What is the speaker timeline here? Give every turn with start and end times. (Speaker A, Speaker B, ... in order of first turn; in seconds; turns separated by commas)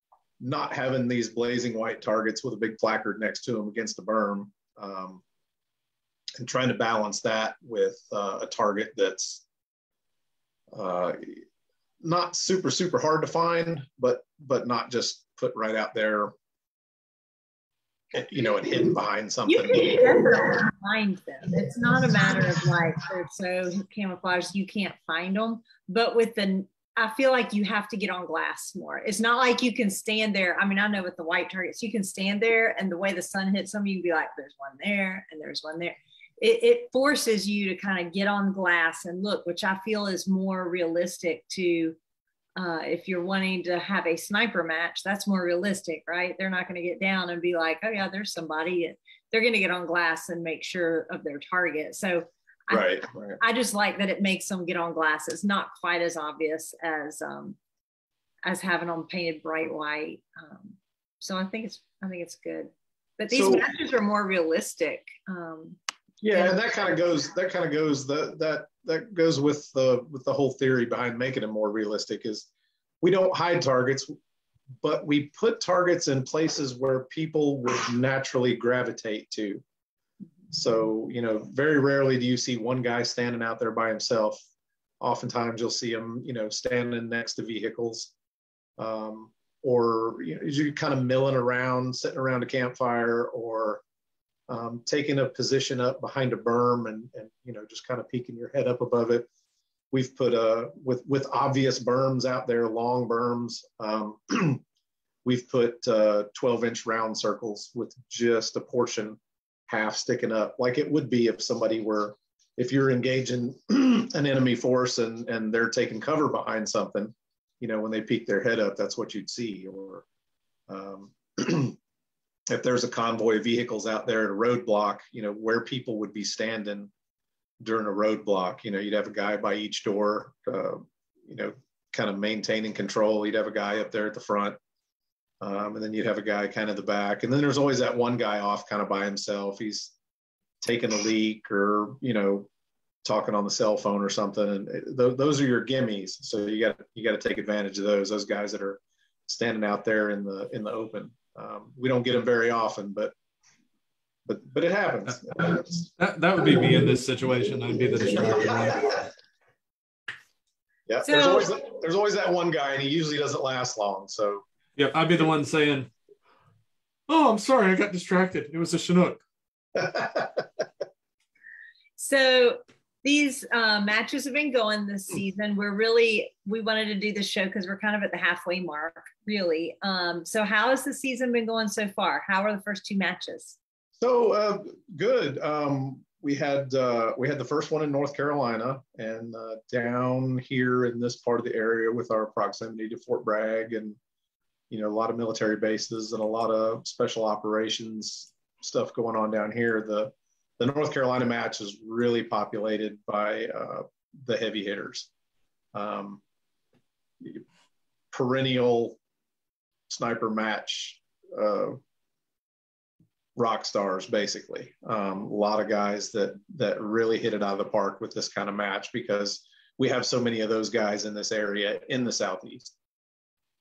Speaker A: 0.4-5.2, Speaker A: 6.4-9.4, Speaker A: 10.7-11.4, Speaker A: 12.0-16.3, Speaker A: 18.1-20.2, Speaker B: 19.5-42.0, Speaker B: 42.6-57.6, Speaker A: 52.7-53.4, Speaker B: 58.4-65.8, Speaker A: 63.3-63.7, Speaker A: 66.2-72.5, Speaker B: 66.3-66.7, Speaker A: 73.0-74.1, Speaker A: 74.8-79.6, Speaker A: 80.5-84.4, Speaker A: 85.0-88.1, Speaker A: 88.8-93.8, Speaker A: 94.5-99.3, Speaker A: 99.9-104.6, Speaker A: 105.2-120.0, Speaker A: 120.7-121.8, Speaker A: 122.5-126.9, Speaker A: 127.6-134.6, Speaker A: 135.4-139.9, Speaker A: 140.6-142.5, Speaker A: 143.0-153.1, Speaker A: 154.2-155.8, Speaker C: 155.6-159.1, Speaker A: 160.9-164.4, Speaker B: 161.0-161.5, Speaker C: 164.8-165.9, Speaker C: 167.1-169.2, Speaker A: 169.8-170.4, Speaker B: 172.0-183.6, Speaker A: 184.0-194.0, Speaker A: 194.7-205.1, Speaker A: 205.7-206.2, Speaker A: 208.1-209.0, Speaker A: 209.9-211.8, Speaker A: 213.4-222.7